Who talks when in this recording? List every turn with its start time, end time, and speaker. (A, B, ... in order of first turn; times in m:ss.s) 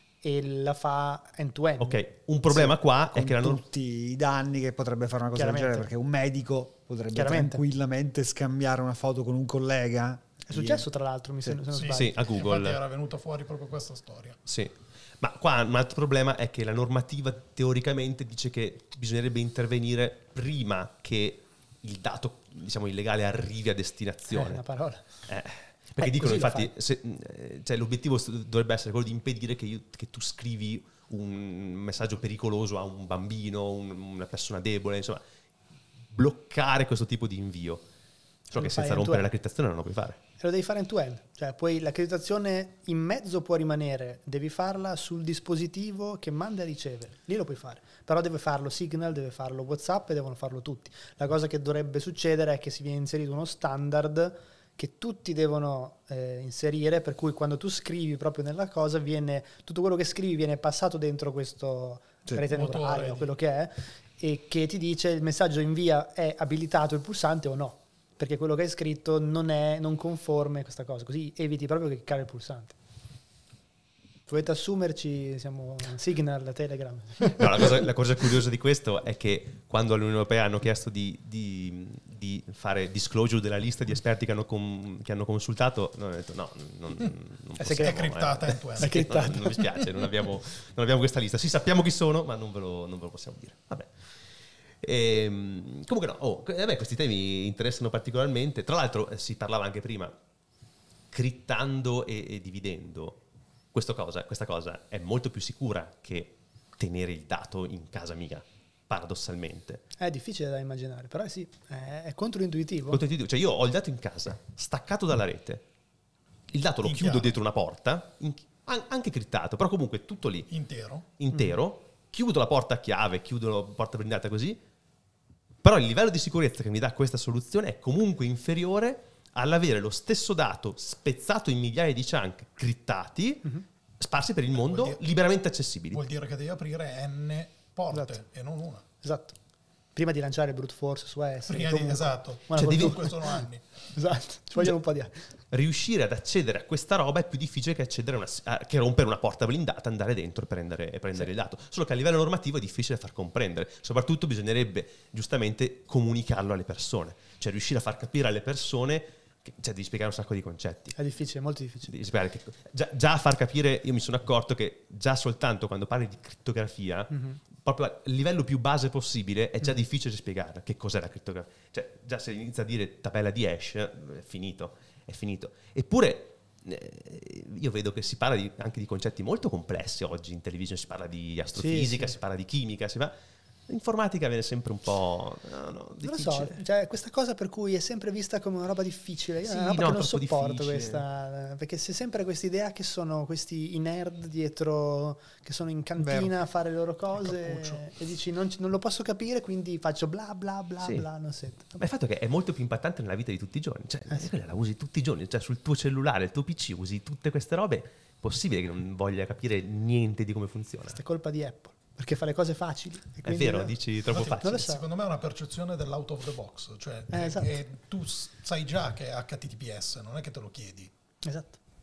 0:00.2-0:02.0 A
0:01.8-0:03.6 B
0:03.1-0:10.8 C
0:05.4-0:05.9 A
0:07.1-0:07.6 A
0:10.5-0:12.2 A
0:11.7-0:14.4 D
0:11.9-0:12.8 B
0:14.4-0:24.6 B
0:24.3-0:25.1 A
0:25.2-0:35.2 B
0:26.0-0:26.7 A
0:36.1-0:37.8 B
0:38.5-0:40.2 B
0:38.6-0:39.3 A
0:40.4-1:12.8 A
1:02.5-1:03.3 D
1:14.3-1:17.7 A
1:17.4-1:33.9 B
1:27.6-1:29.7 A
1:27.7-1:29.4 D
1:34.8-1:40.1 B
1:41.1-1:43.2 B
1:43.7-1:49.8 B
1:50.0-1:53.0 A
1:52.9-1:55.6 B
1:56.5-2:00.5 B
1:56.8-1:57.4 D
2:00.5-2:01.0 D
2:01.2-2:04.6 B
2:05.6-2:16.0 B
2:14.5-2:15.0 D
2:15.9-2:18.8 D
2:17.9-2:18.2 A
2:19.0-2:19.4 A
2:20.0-2:25.3 A
2:21.5-2:23.6 D
2:22.6-2:23.1 B
2:25.5-2:41.0 B
2:41.0-2:41.9 A
2:41.9-2:47.1 B
2:47.1-2:47.4 A
2:47.6-3:03.1 B
3:01.6-3:02.1 A
3:03.7-3:06.6 B
3:06.0-3:21.8 A
3:09.4-3:11.0 B
3:16.0-3:16.3 C
3:17.1-3:17.8 D
3:20.8-3:21.1 B
3:21.8-3:31.0 B
3:30.9-3:33.8 A
3:33.2-3:34.5 B
3:34.1-3:40.9 D
3:34.4-3:34.8 A
3:37.1-3:37.6 A
3:41.2-3:41.6 A